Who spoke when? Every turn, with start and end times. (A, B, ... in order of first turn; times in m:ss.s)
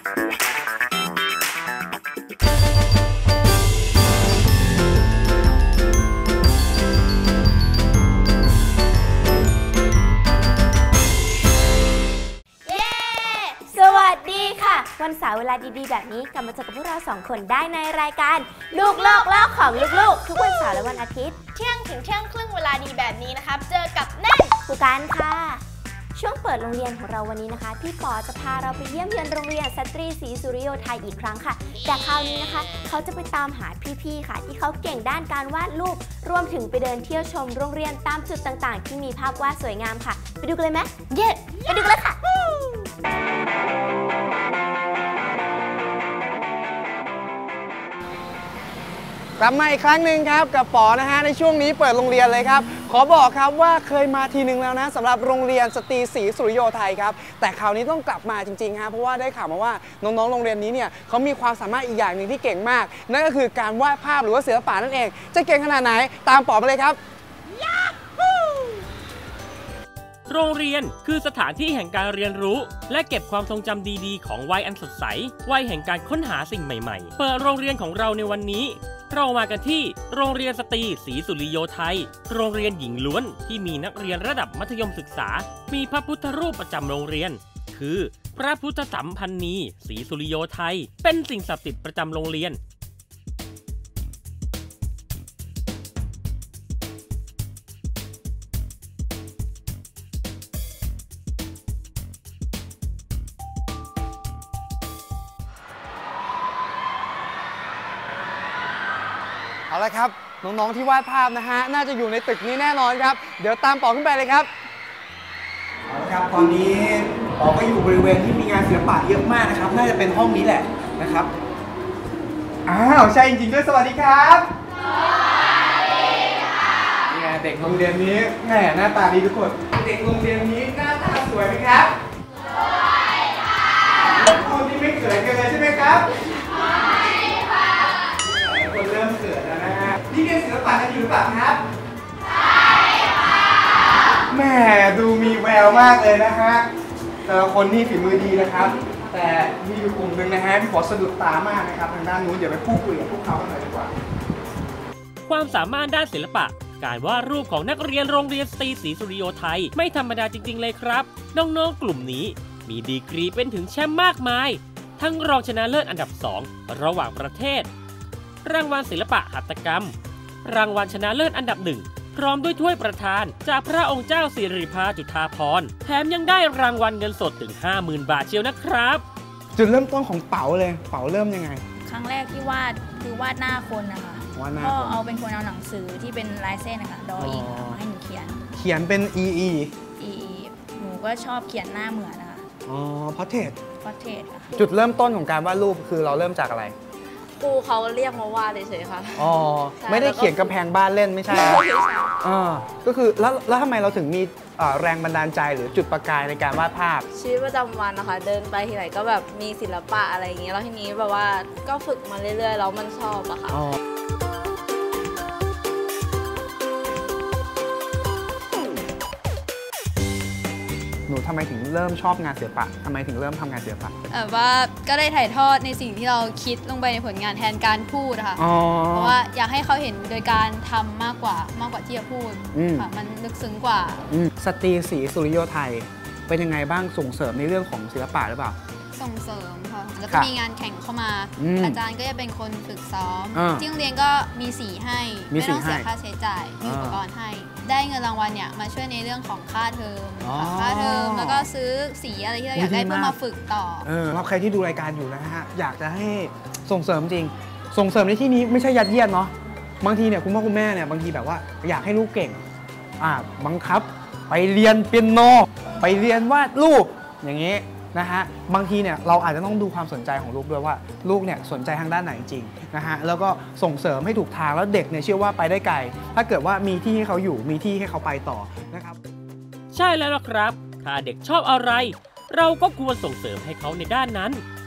0:12.7-0:14.7 A
0:13.7-0:21.4 B
0:18.9-0:20.7 A
0:21.6-0:24.6 A
0:24.7-0:25.6 B
0:26.2-0:42.4 B
0:49.4-1:07.0 C
1:10.3-1:32.6 D
1:49.7-1:54.5 C
1:55.9-2:01.3 C
2:02.7-2:04.5 C
2:07.1-2:12.0 C
2:14.1-2:16.1 C
2:18.2-2:21.6 C
2:24.3-2:26.7 C
2:27.3-2:33.9 C
2:35.3-2:47.7 D
2:48.4-2:59.0 D
2:59.6-3:01.6 C
3:01.8-3:08.4 E
3:04.4-3:05.0 C
3:07.2-3:07.8 C
3:08.6-3:09.7 C
3:10.0-3:12.5 E
3:12.6-3:13.6 C
3:13.8-3:14.5 E
3:14.6-3:16.7 C
3:17.4-3:20.6 F
3:19.2-3:21.6 C
3:21.3-3:22.1 F
3:22.2-3:27.1 C
3:27.1-3:33.6 F
3:33.5-3:33.8 C
3:41.1-3:43.9 C
3:44.1-3:54.0 G
3:48.4-3:49.2 C
3:52.5-3:52.9 C
3:54.1-3:58.6 C
3:58.9-4:13.9 G
4:01.4-4:01.8 C
4:03.3-4:03.7 C
4:05.3-4:05.9 C
4:06.6-4:07.0 C
4:10.2-4:11.5 C
4:12.5-4:13.2 C
4:13.8-4:22.4 C
4:23.0-4:39.0 C
4:39.7-4:44.4 D